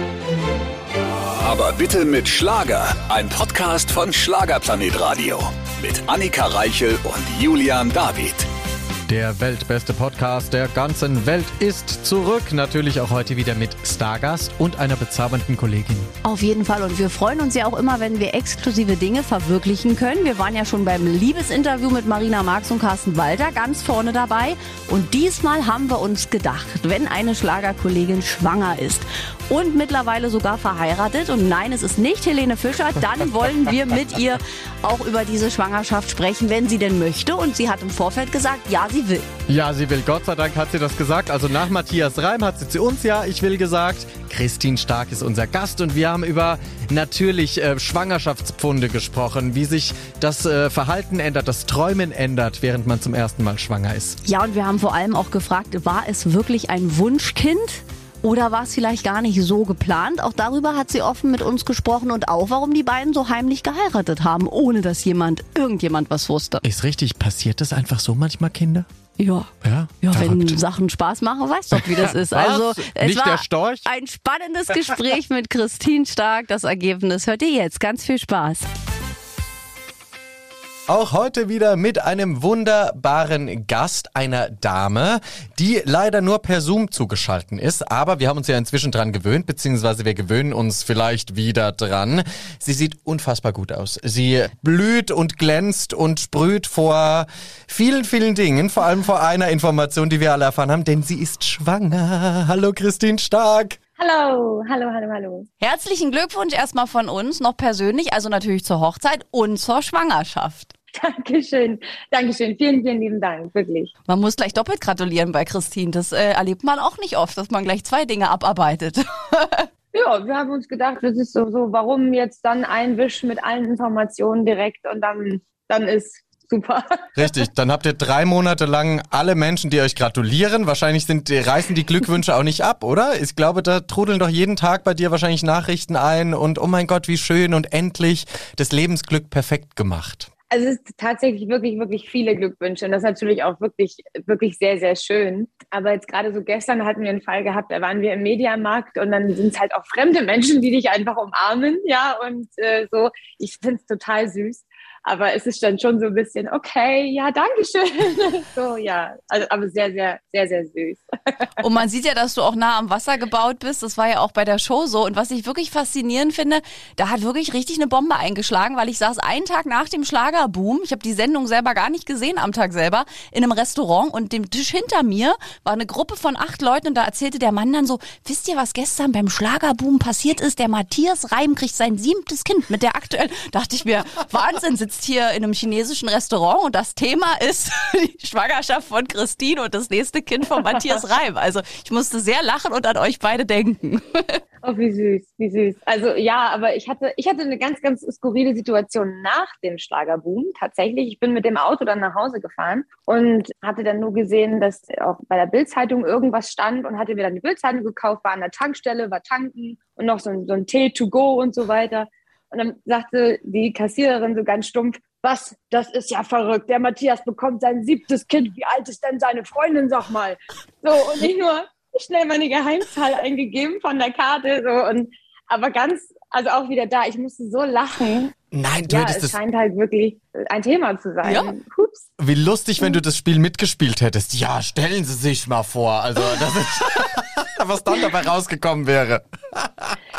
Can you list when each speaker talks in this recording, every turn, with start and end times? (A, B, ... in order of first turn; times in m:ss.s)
0:01.4-0:08.5 A
0:09.1-0:16.1 B
0:16.2-0:39.3 C
0:39.5-0:54.2 B
0:54.2-1:06.6 C
1:06.6-1:08.9 B
1:09.2-1:09.5 C
1:09.6-1:10.6 B
1:10.0-1:18.7 C
1:11.7-1:13.9 B
1:20.9-1:43.8 B
1:44.0-1:45.5 D
1:45.6-1:50.7 C
1:51.0-1:53.9 D
1:54.1-1:59.7 C
1:59.9-2:07.0 D
2:07.2-2:20.3 B
2:20.5-2:41.5 D
2:41.6-3:14.4 C
3:14.6-3:48.4 D
3:48.5-3:49.4 B
3:48.9-3:52.1 D
3:51.2-3:51.5 C
3:52.2-4:00.0 B